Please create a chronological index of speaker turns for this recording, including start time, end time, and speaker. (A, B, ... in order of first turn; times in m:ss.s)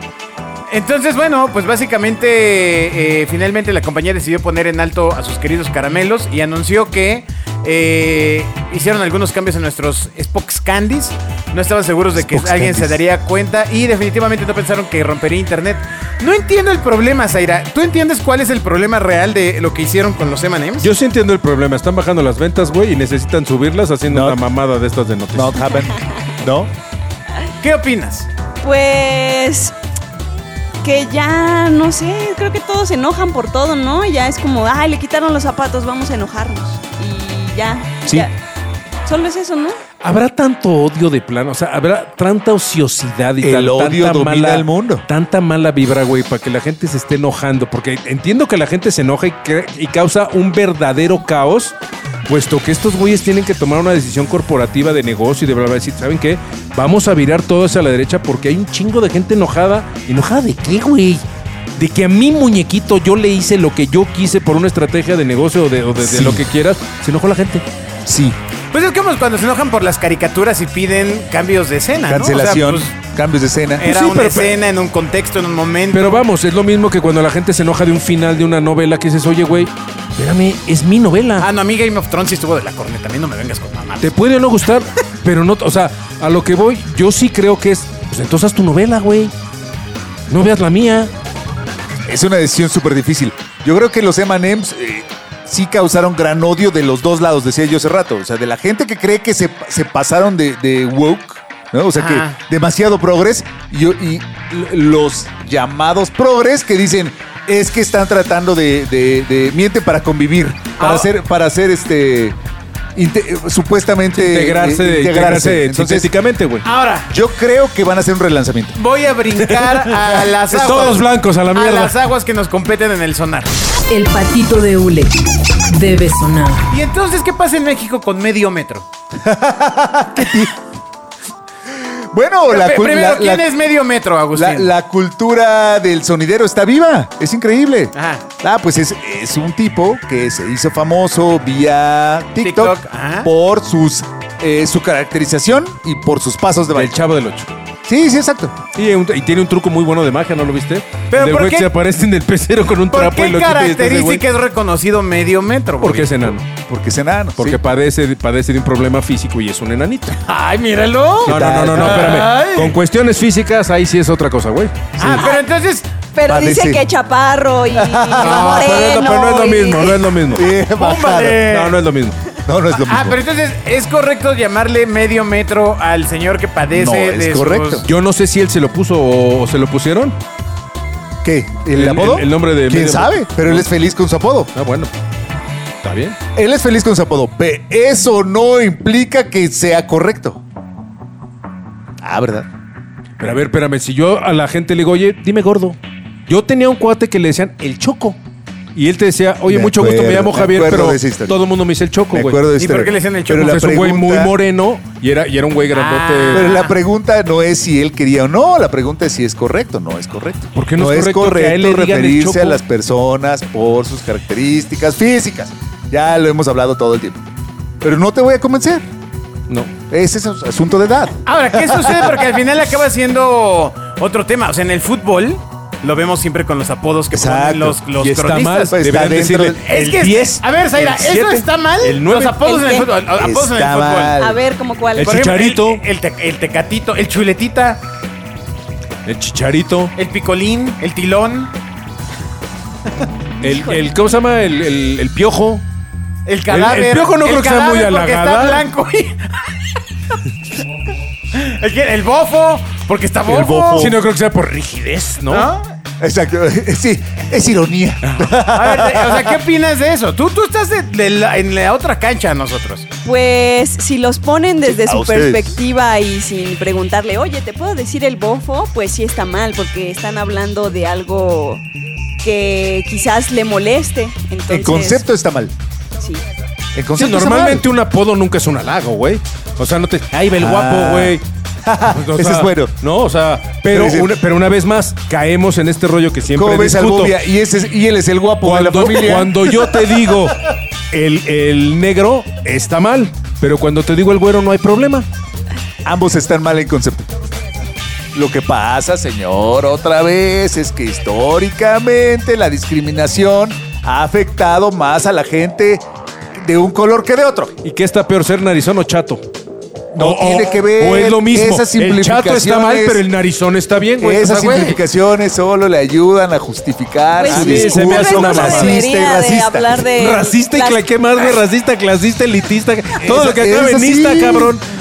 0:00.7-0:20.9 A
0:12.2-0:13.0 B
0:20.8-0:25.6 C
0:24.1-0:24.4 B
0:25.3-0:26.7 B
0:27.6-0:28.3 A
0:28.6-0:29.7 D
0:30.8-0:38.3 D
0:39.0-0:39.8 D
0:40.0-0:51.7 C
0:43.4-0:45.0 B
0:52.3-1:01.2 C
1:01.8-1:07.6 C
1:06.0-1:06.4 B
1:08.1-1:08.4 B
1:08.7-1:12.9 A
1:12.1-1:14.2 B
1:13.8-1:16.2 A
1:13.9-1:14.6 C
1:15.9-1:21.5 C
1:21.4-1:24.1 A
1:24.0-1:29.3 C
1:30.3-1:31.1 C
1:32.1-1:52.4 B
1:42.0-1:42.4 A
1:50.8-1:51.1 A
1:53.0-1:56.1 B
1:54.1-1:56.7 C
1:56.6-1:57.1 A
1:57.1-1:58.8 B
1:58.8-2:03.5 A
1:59.4-2:02.0 C
2:03.9-2:06.7 E
2:06.7-2:08.8 A
2:09.2-2:10.5 B
2:11.8-2:13.5 B
2:12.5-2:14.7 A
2:14.3-2:27.0 B
2:18.0-2:18.2 A
2:22.4-2:23.3 A
2:26.7-2:27.5 C
2:27.8-2:28.6 B
2:28.8-2:34.2 C
2:31.1-2:31.7 A
2:32.9-2:36.3 A
2:35.8-2:36.5 C
2:36.6-2:37.6 B
2:37.4-2:40.2 C
2:40.2-2:42.8 A
2:41.2-2:45.2 C
2:41.2-2:42.3 B
2:45.0-2:45.3 B
2:45.0-2:45.9 A
2:46.1-2:50.1 D
2:46.3-2:46.8 B
2:47.7-2:48.5 B
2:48.2-2:50.5 C
2:50.3-2:51.5 B
2:50.6-2:51.8 A
2:51.4-2:52.2 C
2:52.4-2:53.2 B
2:52.8-2:57.9 A
2:56.7-2:57.9 B
2:57.8-3:00.2 C
3:01.2-3:04.5 B
3:01.7-3:03.7 C
3:04.5-3:04.9 C
3:05.8-3:06.2 C
3:06.4-3:10.4 B
3:12.0-3:12.5 B
3:13.2-3:18.2 C
3:18.8-3:22.4 C
3:19.5-3:21.4 B
3:22.1-3:24.3 B
3:22.6-3:23.4 A
3:23.3-3:26.7 C
3:25.7-3:26.7 A
3:26.3-3:37.2 B
3:30.6-3:32.6 C
3:37.8-3:38.9 B
3:39.5-3:39.7 C
3:39.9-3:42.0 B
3:41.3-3:48.8 A
3:47.1-3:47.8 B
3:48.0-3:52.4 C
3:48.7-3:49.6 B
3:49.6-3:54.2 A
3:52.4-3:52.9 D
3:53.2-3:54.4 B
3:54.2-3:55.3 D
3:55.0-3:55.8 C
3:55.0-3:57.8 A
3:59.0-3:59.9 C
4:00.0-4:01.5 A
4:03.4-4:03.9 D
4:03.4-4:05.6 C
4:06.3-4:09.6 A
4:06.5-4:08.7 C
4:11.3-4:13.9 A
4:13.3-4:14.0 B
4:13.8-4:15.5 C
4:15.3-4:15.7 A
4:16.0-4:19.4 B
4:18.0-4:18.3 C
4:18.5-4:22.9 A
4:23.0-4:31.6 D
4:24.7-4:25.6 B
4:32.2-4:35.0 D
4:34.5-4:35.5 B
4:36.8-4:37.7 B
4:37.0-4:41.2 C
4:40.4-4:42.7 B
4:41.9-4:47.2 C
4:43.7-4:44.1 B
4:46.3-4:50.0 B
4:48.4-4:55.1 C
4:55.8-4:57.1 B
4:58.1-5:07.6 B
5:07.6-5:09.2 C
5:09.9-5:13.0 B
5:10.0-5:14.8 C
5:14.0-5:19.9 B
5:17.2-5:21.4 D
5:17.3-5:18.8 C
5:20.0-5:24.6 C
5:23.0-5:24.6 B